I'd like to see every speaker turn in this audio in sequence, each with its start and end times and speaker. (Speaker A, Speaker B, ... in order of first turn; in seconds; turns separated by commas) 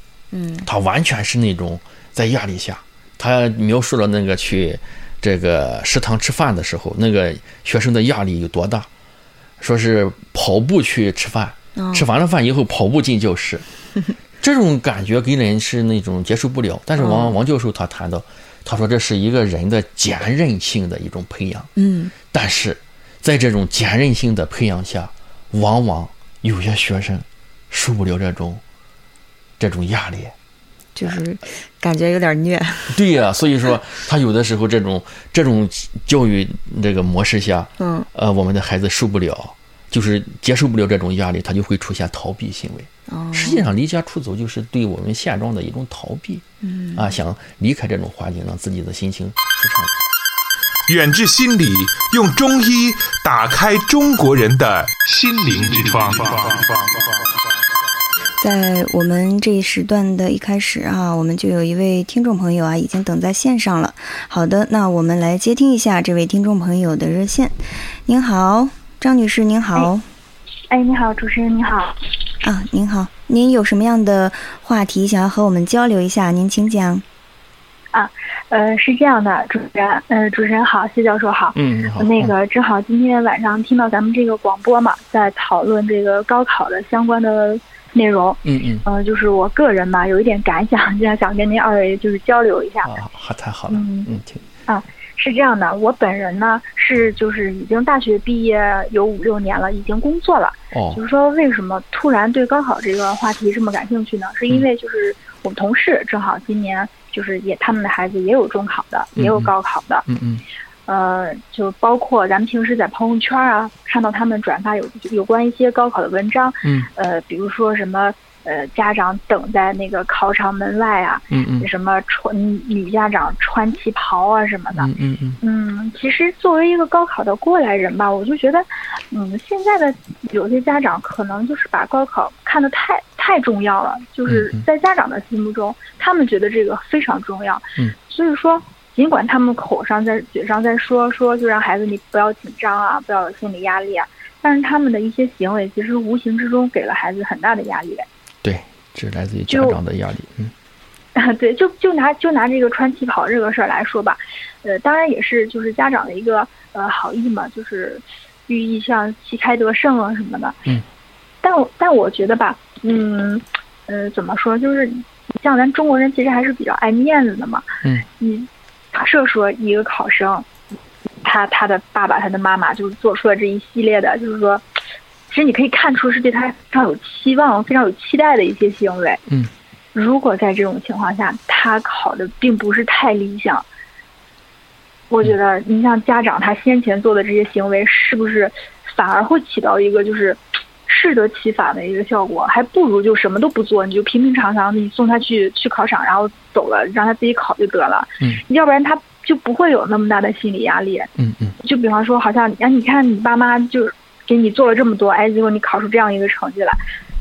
Speaker A: 0.3-0.7, Speaker B: 0.6-8.9, Speaker B: 9.6-13.6, Speaker A: 11.8-12.1, Speaker B: 14.4-21.7, Speaker A: 17.0-17.4, Speaker A: 21.8-22.1, Speaker B: 22.3-28.6, Speaker B: 29.6-30.3, Speaker A: 30.9-33.0, Speaker B: 32.9-49.9, Speaker A: 37.8-38.1, Speaker A: 43.1-43.7, Speaker A: 46.6-47.1, Speaker C: 50.9-56.9, Speaker A: 58.4-70.0, Speaker D: 70.7-72.0, Speaker A: 72.4-77.0, Speaker D: 77.9-92.9, Speaker B: 81.5-82.3, Speaker B: 88.5-88.8, Speaker B: 92.8-94.4, Speaker D: 93.7-94.1, Speaker D: 94.7-110.0, Speaker B: 100.7-101.0, Speaker B: 109.2-109.5, Speaker B: 110.1-110.4, Speaker D: 110.9-124.9, Speaker B: 116.6-116.9, Speaker B: 121.3-121.7, Speaker B: 124.8-125.4, Speaker D: 125.4-148.1, Speaker B: 134.3-134.6, Speaker B: 148.4-150.5, Speaker D: 149.5-149.8, Speaker D: 151.2-160.6, Speaker D: 161.4-167.7, Speaker D: 168.2-170.5, Speaker D: 171.2-174.6, Speaker D: 175.3-179.2, Speaker D: 179.9-183.6, Speaker D: 185.1-201.1, Speaker B: 201.2-201.6, Speaker D: 201.6-206.8